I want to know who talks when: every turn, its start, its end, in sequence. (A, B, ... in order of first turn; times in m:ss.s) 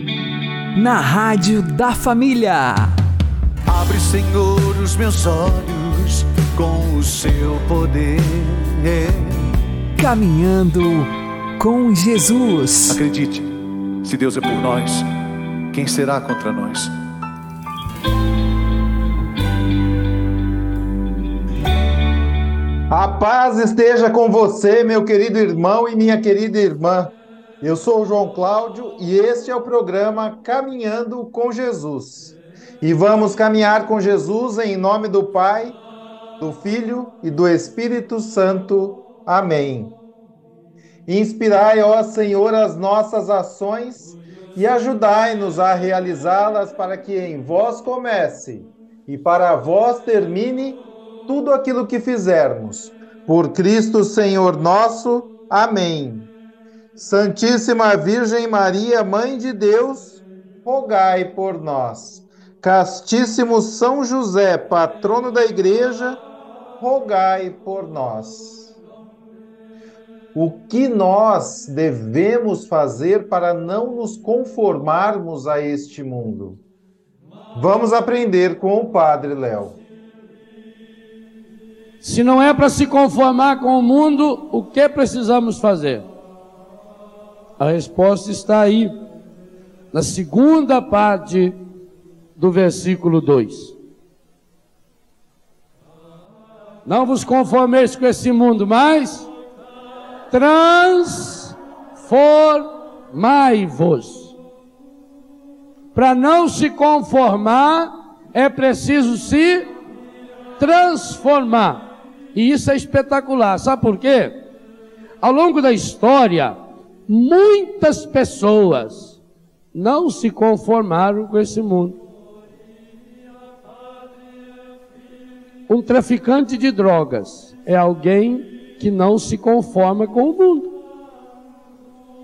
0:00.7-0:02.9 A
0:03.7-0:09.4 B
0:10.0-0:13.0 A
0:12.9-0:15.1 B
0:15.7-0:16.9 B
0:22.9-0:35.8 C
0:36.4-0:40.0 C
0:41.1-0:56.3 C
0:57.0-1:06.2 C
1:06.8-1:08.7 C
1:10.3-1:16.6 C
1:17.5-1:19.8 C
1:22.0-1:26.0 D
1:27.6-1:28.9 D
1:29.9-1:31.6 D
1:32.4-1:33.7 D
1:36.8-1:39.3 D
1:40.3-1:44.3 D
1:45.9-1:49.7 D
1:50.6-1:54.4 D
1:55.2-1:56.6 D
1:57.1-1:59.2 D
1:59.7-2:02.0 D
2:05.7-2:10.7 D